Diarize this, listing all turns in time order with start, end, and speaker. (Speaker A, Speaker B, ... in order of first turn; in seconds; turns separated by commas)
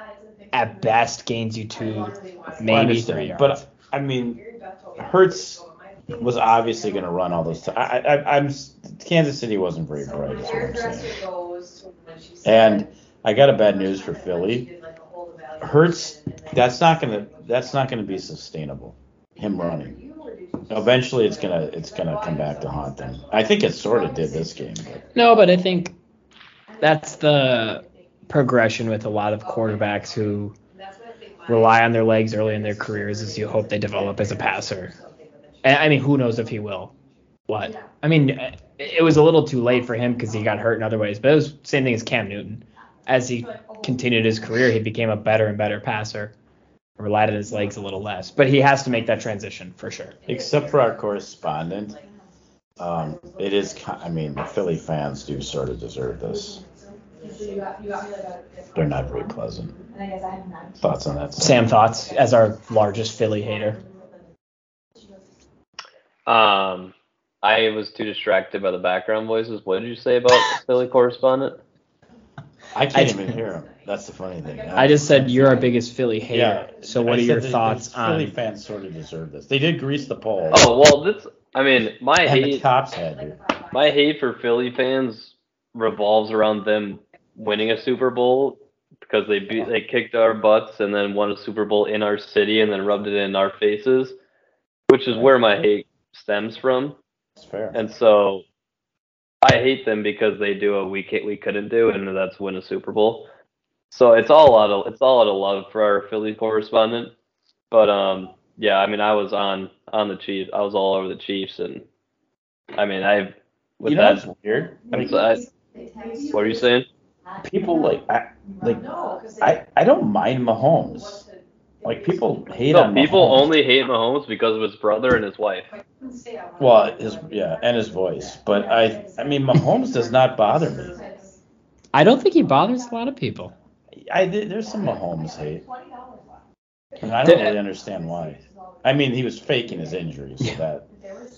Speaker A: 0.5-3.6, Speaker B: 2.6-4.4, Speaker B: 5.0-5.6, Speaker B: 6.2-11.3, Speaker B: 12.4-14.7, Speaker B: 15.6-20.0, Speaker B: 20.7-25.1, Speaker A: 25.1-25.9, Speaker A: 26.8-30.5, Speaker A: 31.4-34.9, Speaker A: 35.6-36.9, Speaker A: 37.5-46.3, Speaker A: 47.0-50.2, Speaker B: 50.2-52.0, Speaker B: 52.8-56.6, Speaker B: 58.7-59.8, Speaker B: 60.8-61.7, Speaker A: 61.4-63.8, Speaker C: 66.2-71.6, Speaker B: 72.7-75.7, Speaker A: 72.9-73.4, Speaker A: 74.8-78.3, Speaker B: 76.3-80.7, Speaker C: 80.5-82.6, Speaker B: 82.2-83.4, Speaker C: 83.7-94.2, Speaker C: 94.9-97.0, Speaker B: 97.4-97.8, Speaker C: 97.7-98.4, Speaker C: 99.4-103.3, Speaker C: 103.9-107.1, Speaker C: 107.7-111.8, Speaker C: 112.8-114.2, Speaker B: 113.8-115.2, Speaker C: 114.9-115.5, Speaker C: 116.3-116.9, Speaker B: 117.4-121.3, Speaker B: 121.8-123.5, Speaker C: 122.7-125.7, Speaker B: 126.6-131.0, Speaker A: 131.9-133.5, Speaker B: 133.9-135.7, Speaker B: 137.0-140.9, Speaker A: 137.2-137.6